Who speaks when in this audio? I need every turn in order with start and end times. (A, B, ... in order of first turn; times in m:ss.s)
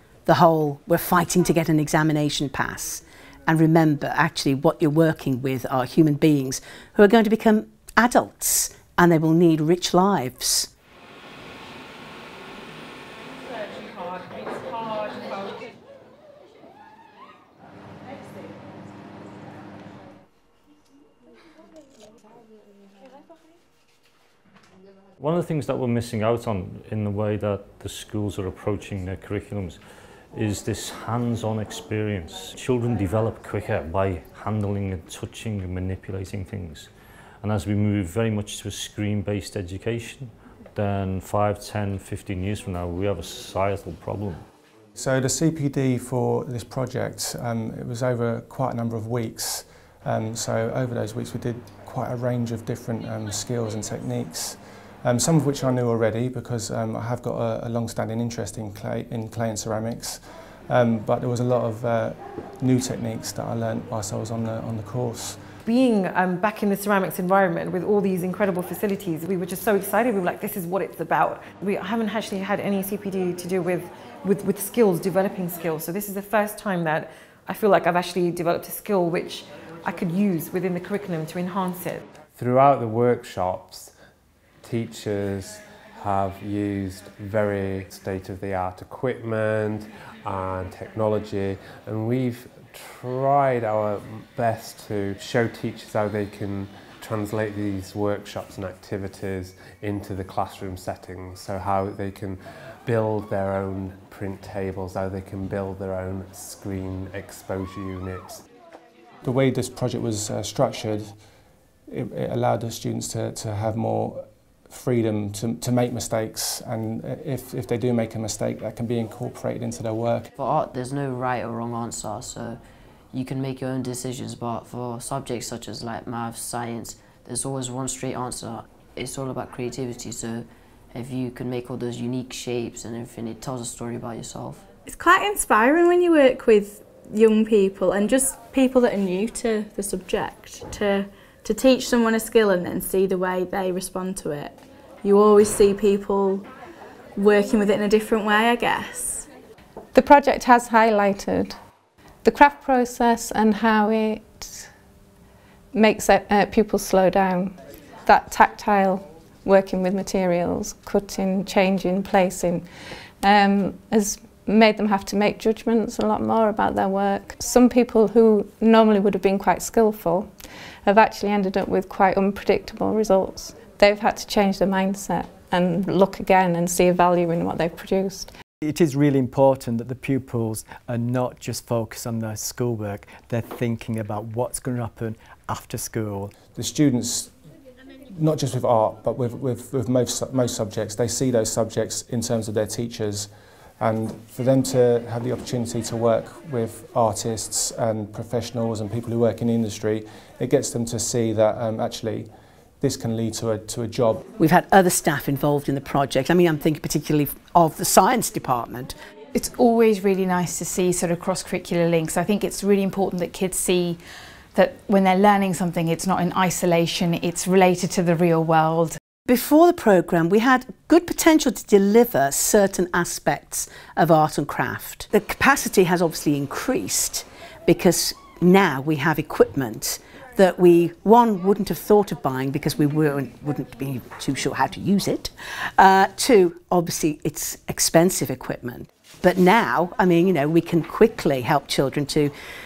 0:00.2-0:10.7 A
0:25.2-0:29.8 B
0:30.3-0:36.9 B
0:37.4-0:44.4 B
0:45.0-1:05.4 C
1:05.6-1:22.0 D
1:22.4-1:23.9 E
1:24.6-1:48.4 E
1:49.2-1:51.2 C
1:51.9-2:00.3 C
2:00.4-2:02.6 F
2:03.1-2:14.6 F
2:14.9-2:26.5 G
2:27.2-2:29.3 G
2:29.9-2:31.6 H
2:32.2-2:34.7 H
2:35.7-2:50.3 H
2:50.8-2:58.3 H
2:58.6-3:06.3 I
3:06.5-3:07.3 C
3:08.1-3:24.2 C
3:24.4-3:28.9 A
3:29.3-3:39.0 J
3:39.3-4:02.3 A